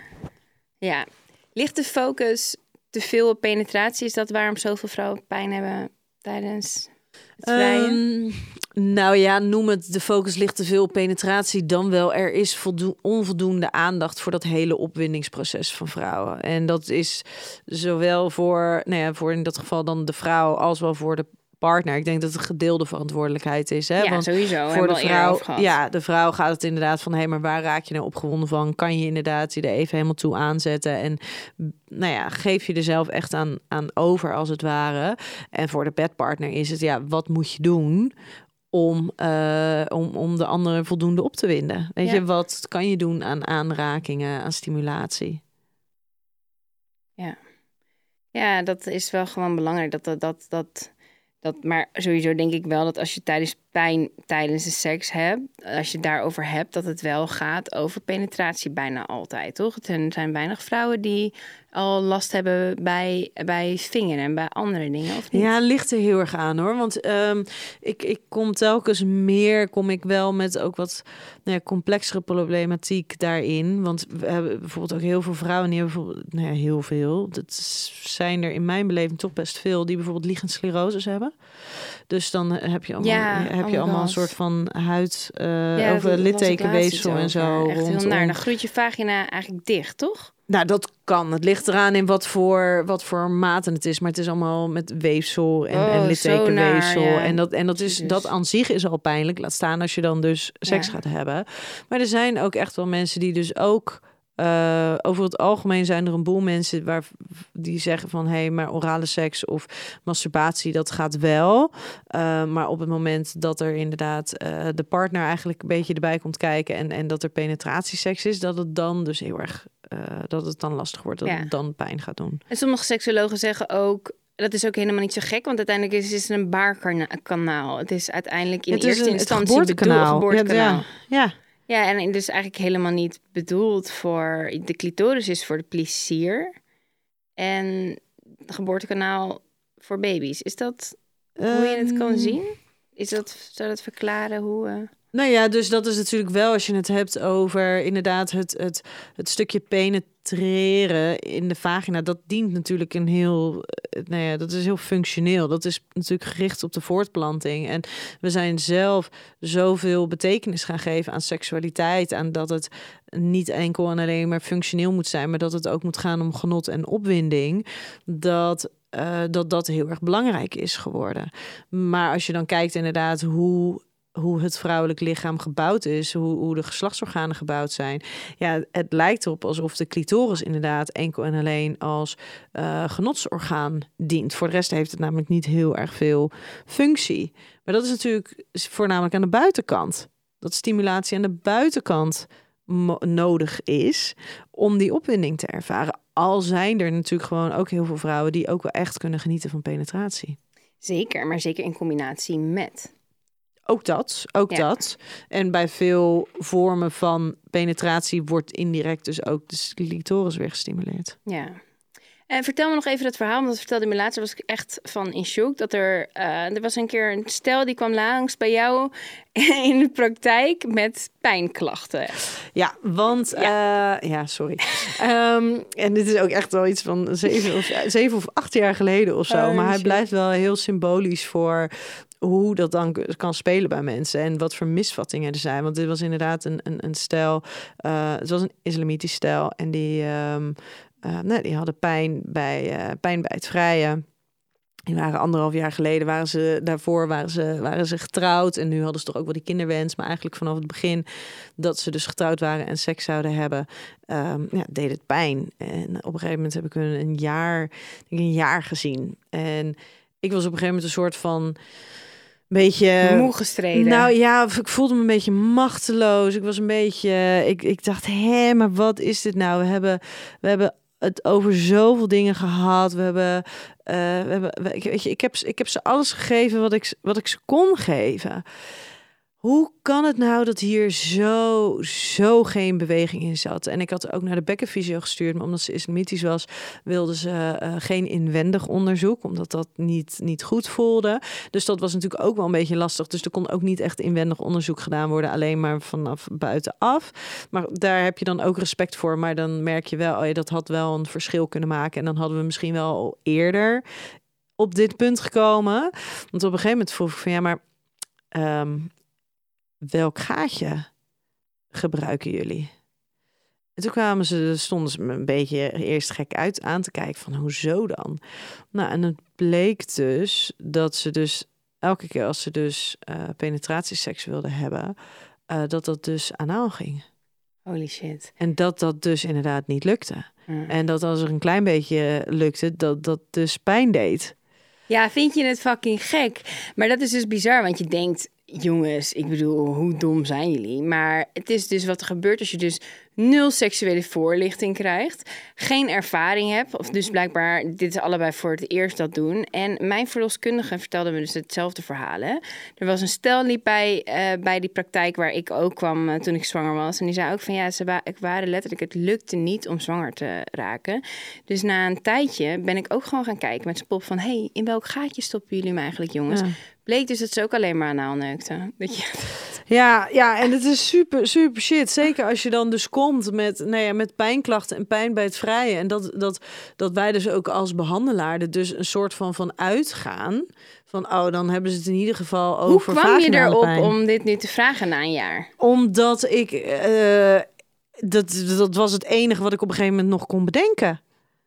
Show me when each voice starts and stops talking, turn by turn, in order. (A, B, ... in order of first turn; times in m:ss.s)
0:00.8-0:08.0 A
0:07.4-0:38.1 B
0:24.0-0:25.7 A
0:38.7-0:45.4 B
0:48.3-1:05.5 A
1:05.3-1:28.4 B
1:23.0-1:24.3 A
1:25.8-1:30.3 A
1:30.5-2:02.4 B
1:35.7-1:38.3 A
1:40.7-1:40.9 A
2:01.2-2:01.5 A
2:02.5-2:10.9 A
2:08.7-2:11.3 B
2:11.7-2:16.5 A
2:17.4-2:24.9 A
2:21.4-2:22.4 B
2:25.1-3:20.4 B
3:20.8-3:22.9 A
3:23.7-3:31.2 B
3:31.3-3:31.6 A
3:32.3-3:42.2 A
3:42.5-3:51.7 B
3:49.3-3:50.0 A
3:52.2-4:04.0 B
4:04.9-4:11.0 B
4:11.6-4:21.6 B
4:22.5-4:38.4 B
4:23.0-4:24.1 A
4:39.4-5:03.8 B
5:04.6-5:07.6 B
5:08.3-5:08.9 B
5:09.8-5:10.9 B
5:11.7-5:12.7 B
5:13.8-5:18.2 B
5:18.7-5:24.9 B
5:25.5-5:27.0 B
5:27.6-5:28.3 A
5:28.4-5:34.3 B
5:34.9-6:09.4 A
6:06.3-6:06.5 B
6:09.7-6:23.9 B
6:22.6-6:25.5 A
6:25.6-6:27.4 B
6:28.0-6:31.0 B